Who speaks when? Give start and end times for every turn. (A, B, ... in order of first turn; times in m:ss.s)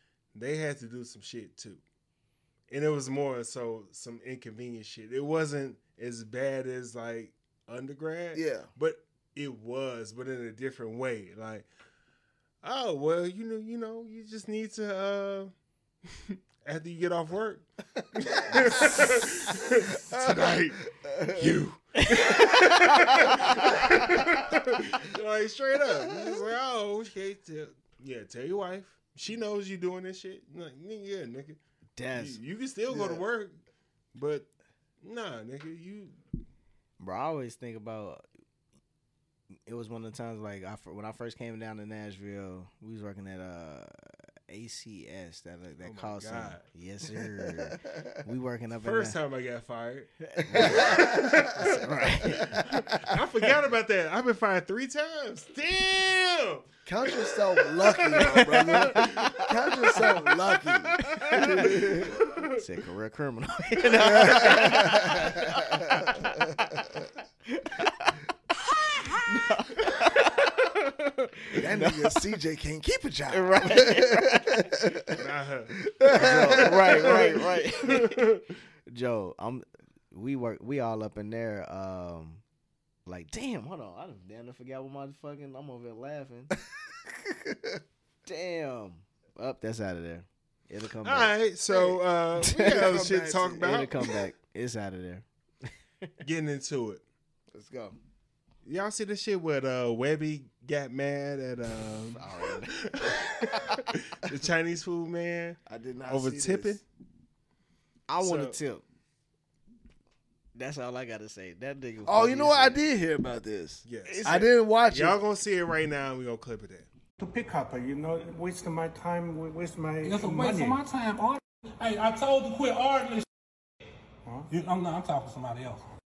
0:00.3-0:01.8 A
0:02.7-0:11.7 A
0:08.3-0:08.7 B
0:12.6-0:15.5 A
0:16.0-0:31.6 A
0:18.5-0:19.5 B
0:20.1-0:21.6 B
0:22.0-0:23.5 C
0:32.0-0:32.4 C
0:32.1-0:33.5 A
0:32.9-0:33.2 B
0:34.1-0:34.5 A
0:35.0-0:36.2 A
0:37.0-0:38.2 C
0:39.7-0:43.9 C
0:44.5-0:49.2 C
0:45.8-0:46.6 A
0:47.4-0:48.1 B
0:48.7-0:59.4 A
0:50.3-0:52.7 C
0:50.5-0:51.4 B
0:56.8-1:02.2 B
0:58.3-0:59.9 C
1:01.0-1:01.8 C
1:01.1-1:02.6 A
1:02.4-1:06.4 C
1:04.0-1:07.0 B
1:07.5-1:08.2 C
1:08.8-1:10.6 C
1:11.4-1:12.2 C
1:11.5-1:15.2 B
1:13.3-1:14.7 C
1:15.1-1:18.4 A
1:15.8-1:17.2 B
1:16.1-1:18.2 C
1:18.9-1:22.4 C
1:23.0-1:26.5 C
1:27.0-1:27.8 B
1:28.2-1:31.3 C
1:31.0-1:34.1 A
1:31.7-1:33.8 B
1:32.5-1:32.7 C
1:33.6-1:36.1 C
1:36.2-1:37.0 A
1:37.5-1:38.0 B
1:38.6-1:46.8 A
1:42.1-1:43.9 C
1:45.7-1:46.8 B
1:48.1-1:48.8 C
1:48.2-1:48.6 A
1:50.5-1:52.8 C
1:52.0-1:55.2 B
1:53.8-1:56.9 A
1:54.0-1:54.4 C
1:57.2-2:00.8 D
2:00.0-2:03.2 E
2:04.5-2:05.8 E